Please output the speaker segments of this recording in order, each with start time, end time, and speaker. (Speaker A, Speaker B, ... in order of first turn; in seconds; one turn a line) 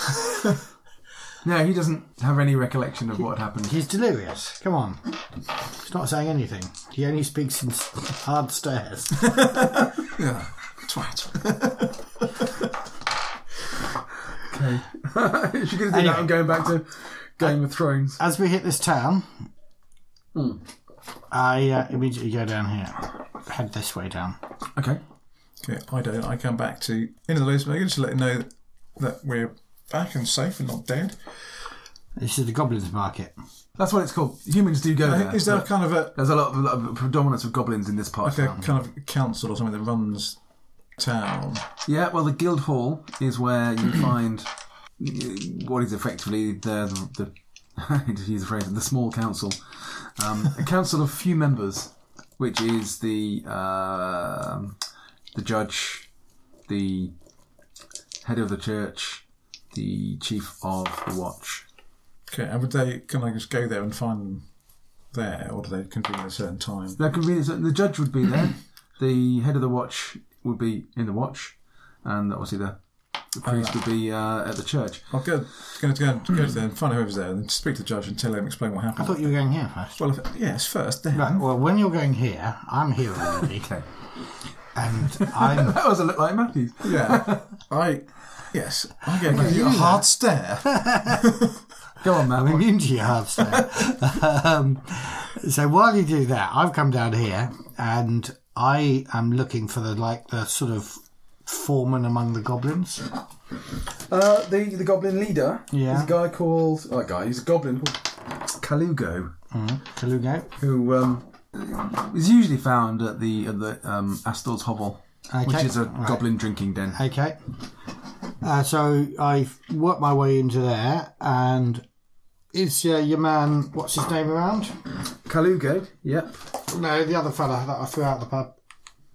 Speaker A: 1.4-3.8
Speaker B: 3.6-9.5
Speaker C: 9.4-12.7
Speaker A: 14.5-18.2
Speaker B: 15.9-16.5
Speaker B: 18.2-19.4
Speaker A: 20.3-20.6
Speaker B: 21.3-24.4
Speaker A: 24.8-25.0
Speaker C: 25.6-31.3
Speaker B: 32.1-33.3
Speaker A: 33.8-38.7
Speaker C: 35.0-36.1
Speaker C: 38.2-40.4
Speaker C: 41.0-41.6
Speaker A: 41.9-54.8
Speaker A: 55.3-56.1
Speaker A: 56.7-57.1
Speaker A: 58.2-61.6
Speaker C: 62.3-64.5
Speaker C: 65.1-67.0
Speaker A: 67.0-72.8
Speaker A: 73.3-75.1
Speaker C: 75.1-79.3
Speaker B: 79.0-80.0
Speaker C: 79.9-81.4
Speaker B: 81.1-83.7
Speaker A: 83.4-83.8
Speaker B: 84.7-85.8
Speaker A: 85.2-87.5
Speaker C: 86.8-91.5
Speaker B: 89.2-90.1
Speaker B: 90.6-91.2
Speaker A: 92.0-92.7
Speaker B: 92.3-103.1
Speaker A: 104.1-109.3
Speaker B: 105.7-106.1
Speaker B: 109.5-110.5
Speaker A: 110.6-117.0
Speaker B: 115.3-116.2
Speaker B: 116.9-117.6
Speaker B: 118.4-121.8
Speaker B: 122.5-124.8
Speaker A: 125.2-126.4
Speaker B: 126.6-128.5